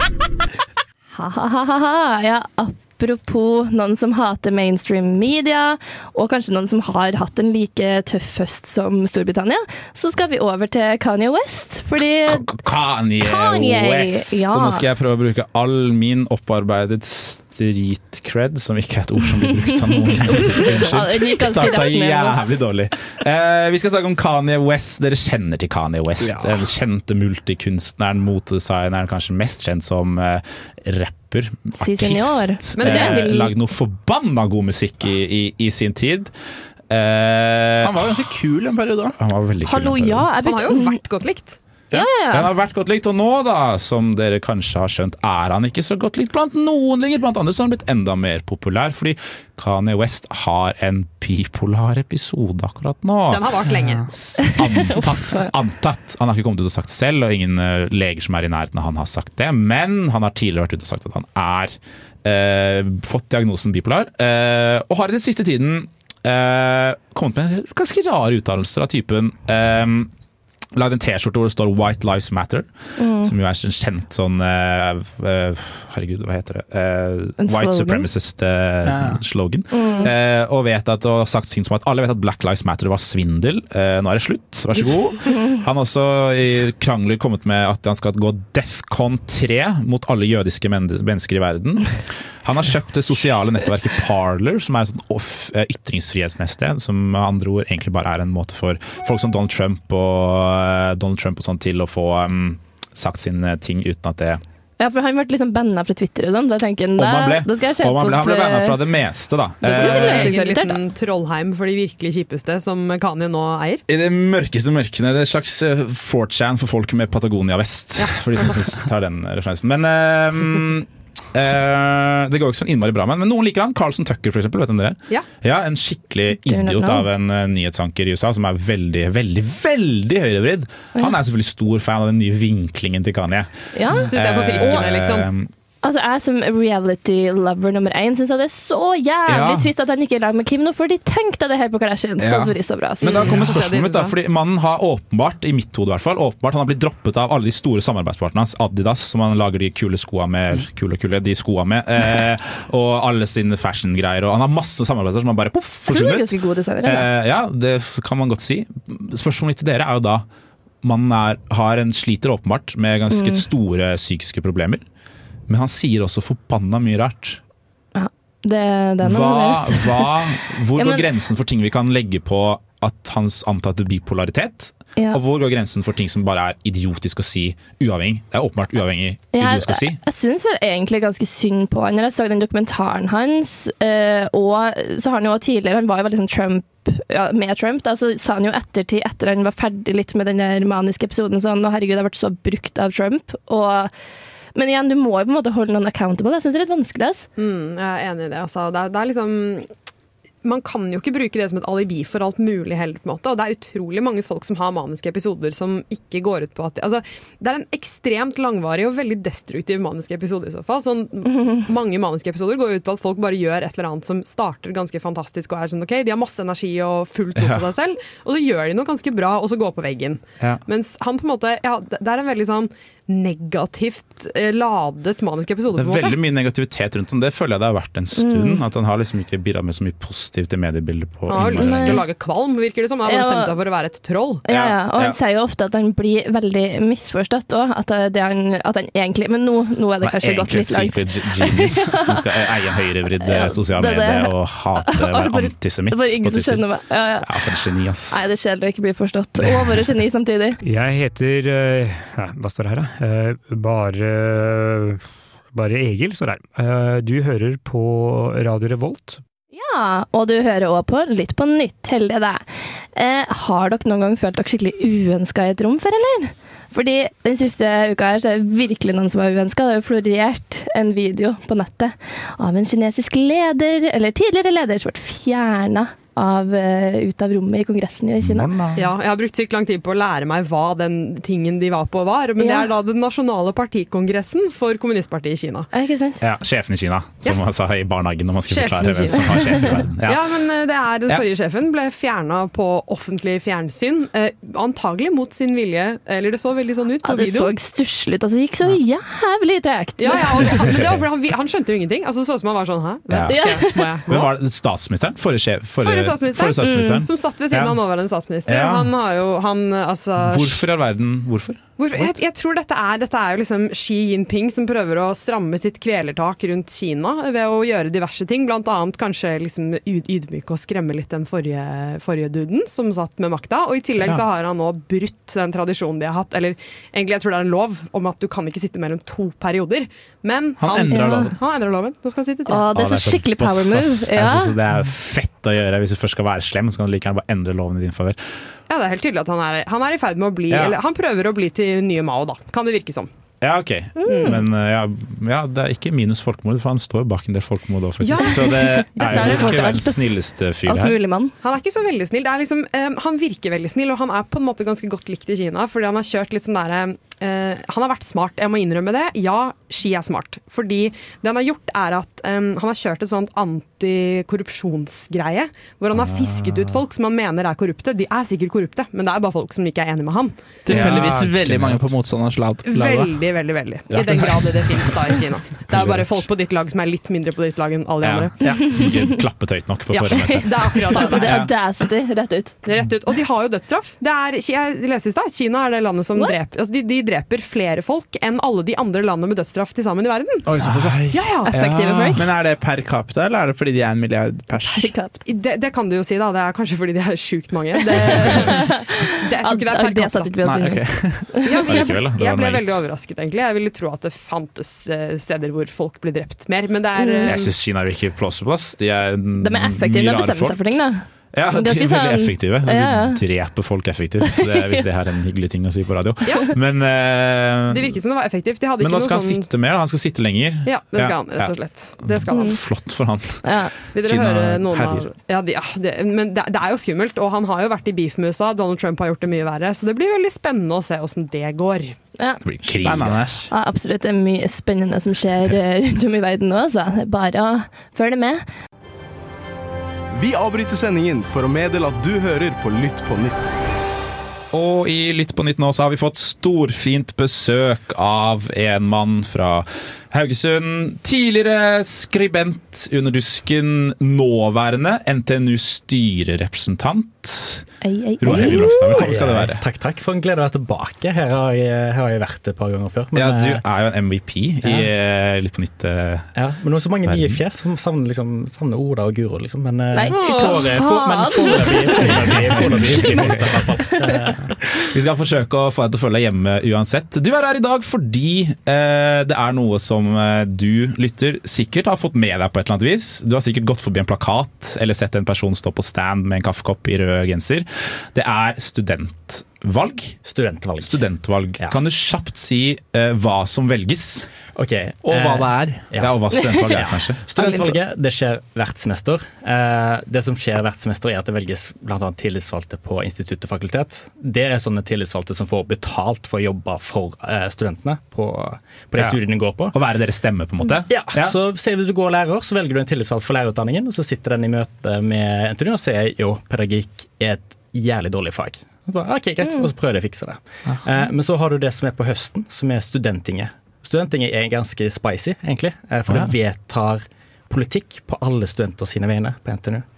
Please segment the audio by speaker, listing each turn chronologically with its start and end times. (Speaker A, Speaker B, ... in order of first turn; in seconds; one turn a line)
Speaker A: 1.1-12.4
Speaker B: 12.3-36.3
Speaker A: 13.2-14.8
Speaker A: 20.0-22.4
Speaker C: 26.2-26.7
Speaker A: 31.8-33.5
Speaker D: 32.8-33.3
Speaker B: 36.9-38.3
Speaker C: 37.8-39.2
Speaker B: 39.2-40.3
Speaker A: 39.7-41.0
Speaker D: 40.4-41.6
Speaker A: 41.9-42.5
Speaker B: 41.9-70.1
Speaker D: 53.3-54.1
Speaker A: 54.6-55.4
Speaker B: 70.8-104.4
Speaker A: 73.0-73.3
Speaker A: 77.4-78.1
Speaker C: 78.8-79.2
Speaker A: 79.7-80.1
Speaker A: 104.8-108.8
Speaker B: 107.0-110.3
Speaker A: 109.6-110.8
Speaker D: 109.7-113.8
Speaker B: 113.9-135.5
Speaker D: 118.0-118.6
Speaker A: 126.3-127.1
Speaker A: 133.7-134.8
Speaker D: 134.1-135.3
Speaker A: 135.8-143.3
Speaker B: 139.3-139.7
Speaker B: 142.2-156.3
Speaker D: 143.0-144.2
Speaker A: 155.9-157.1
Speaker B: 156.8-160.2
Speaker B: 160.8-164.8
Speaker A: 163.1-163.4
Speaker B: 165.5-167.4
Speaker A: 167.9-170.1
Speaker B: 169.0-180.0
Speaker A: 170.8-171.1
Speaker A: 179.3-193.9
Speaker A: 194.6-197.3
Speaker D: 197.4-199.7
Speaker D: 200.4-226.2
Speaker B: 217.4-217.6
Speaker B: 225.8-232.1
Speaker A: 228.2-228.6
Speaker D: 231.3-234.4
Speaker A: 231.5-232.0
Speaker A: 233.1-233.5
Speaker A: 234.4-242.2
Speaker B: 234.5-235.2
Speaker B: 240.0-246.7
Speaker A: 243.2-247.3
Speaker B: 247.2-248.2
Speaker A: 248.1-250.6
Speaker E: 250.6-259.2
Speaker A: 259.5-278.5
Speaker B: 278.2-278.8
Speaker D: 278.8-285.7
Speaker A: 282.4-282.7
Speaker A: 285.7-286.2
Speaker B: 286.2-290.2
Speaker D: 288.5-297.5
Speaker A: 297.0-300.5
Speaker D: 300.0-304.3
Speaker B: 303.1-307.8
Speaker A: 303.3-304.0
Speaker D: 305.8-310.6
Speaker A: 306.6-307.1
Speaker B: 308.5-308.9
Speaker B: 310.2-312.1
Speaker D: 311.8-332.6
Speaker C: 330.6-331.4
Speaker A: 330.9-331.3
Speaker A: 332.5-334.6
Speaker B: 332.7-338.2
Speaker D: 338.7-343.1
Speaker B: 340.5-340.8
Speaker B: 343.4-351.0
Speaker A: 344.0-344.4
Speaker D: 344.1-344.4
Speaker D: 348.0-349.8
Speaker A: 348.2-351.3
Speaker D: 351.4-370.9
Speaker B: 365.9-366.8
Speaker C: 370.7-373.1
Speaker B: 370.7-371.9
Speaker D: 372.7-378.5
Speaker B: 373.9-374.2
Speaker C: 374.0-374.4
Speaker B: 375.7-376.2
Speaker B: 378.0-381.5
Speaker A: 378.7-379.0
Speaker A: 379.9-382.6
Speaker D: 380.4-381.4
Speaker D: 382.6-390.5
Speaker B: 390.5-392.1
Speaker C: 390.5-391.2
Speaker D: 391.1-391.5
Speaker A: 391.5-392.3
Speaker C: 392.1-394.9
Speaker A: 394.7-395.2
Speaker D: 395.2-400.3
Speaker A: 398.0-401.7
Speaker C: 400.4-401.4
Speaker D: 401.4-407.5
Speaker B: 401.7-402.8
Speaker A: 407.0-407.4
Speaker B: 407.3-410.7
Speaker A: 409.4-413.2
Speaker B: 411.3-418.0
Speaker A: 414.3-414.9
Speaker D: 416.3-416.5
Speaker D: 417.7-419.5
Speaker B: 418.8-423.4
Speaker D: 420.6-422.6
Speaker A: 423.4-423.7
Speaker D: 423.9-432.0
Speaker B: 424.0-425.1
Speaker B: 432.4-433.5
Speaker C: 432.7-433.5
Speaker A: 433.5-438.4
Speaker F: 440.1-443.5
Speaker B: 444.5-457.7
Speaker A: 457.8-459.1
Speaker B: 458.2-459.6
Speaker G: 458.3-463.6
Speaker B: 463.1-466.3
Speaker G: 464.6-464.9
Speaker G: 466.4-474.5
Speaker B: 467.1-467.4
Speaker A: 469.9-474.3
Speaker D: 470.1-470.7
Speaker B: 472.8-473.4
Speaker B: 474.8-490.2
Speaker G: 490.2-491.1
Speaker B: 490.8-494.3
Speaker G: 494.5-509.8
Speaker C: 495.0-495.9
Speaker B: 495.9-497.2
Speaker A: 497.4-497.7
Speaker B: 509.7-511.4
Speaker G: 510.9-529.9